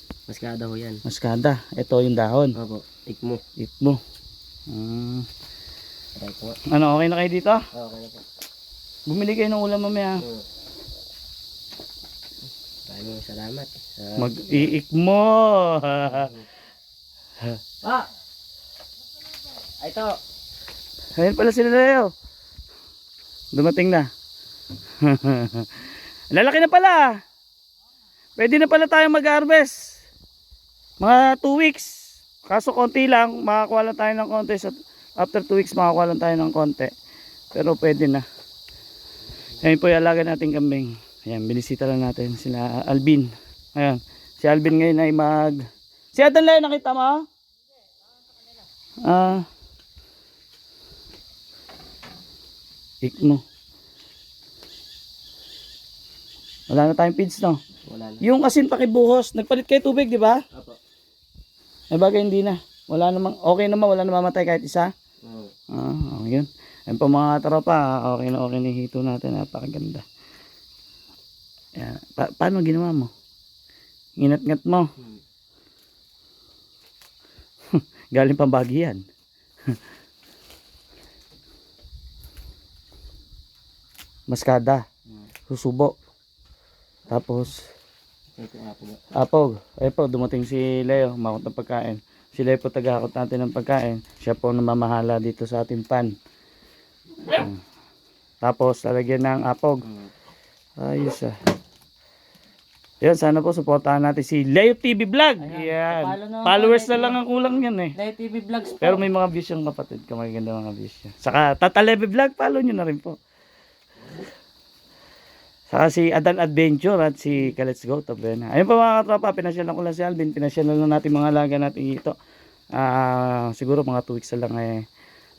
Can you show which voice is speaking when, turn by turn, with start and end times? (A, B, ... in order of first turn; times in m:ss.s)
0:00.3-0:01.0 A
0:01.0-0:02.6 B
0:02.6-0:03.4 A
0:03.6-0:04.0 B
0:04.7-0:05.3 B
0:06.1-0:06.6 A
0:06.6-0:07.6 B
0:07.7-0:08.2 A
0:09.1-0:10.2 B
0:10.2-0:10.4 A
0:12.9-0:14.7 A
0:14.2-0:16.3 B
0:16.1-0:16.4 A
0:19.8-0:20.1 A
0:21.2-0:22.1 B
0:23.5-0:24.1 B
0:25.0-0:27.2 B
0:28.4-0:29.9 B
0:31.0-0:31.9 B
0:32.4-0:36.9 B
0:37.5-0:38.2 B
0:39.6-0:45.6 B
0:46.1-0:47.2 B
0:49.0-0:49.4 B
0:53.0-0:53.4 B
0:56.7-0:57.6 B
0:57.8-0:58.2 A
0:58.2-1:00.4 B
1:01.9-1:04.9 B
1:05.2-1:05.5 A
1:05.7-1:10.0 B
1:11.8-1:13.1 B
1:14.2-1:14.9 B
1:17.7-1:19.0 B
1:24.3-1:24.8 B
1:25.5-1:26.0 B
1:27.1-1:27.6 B
1:28.4-1:29.0 A
1:29.1-1:36.1 B
1:37.2-1:37.6 B
1:38.4-1:39.8 B
1:40.8-1:41.3 B
1:43.0-1:47.9 B
1:45.4-1:47.2 C
1:48.0-1:49.0 C
1:48.8-1:53.2 B
1:55.7-2:02.1 B
2:02.7-2:04.8 B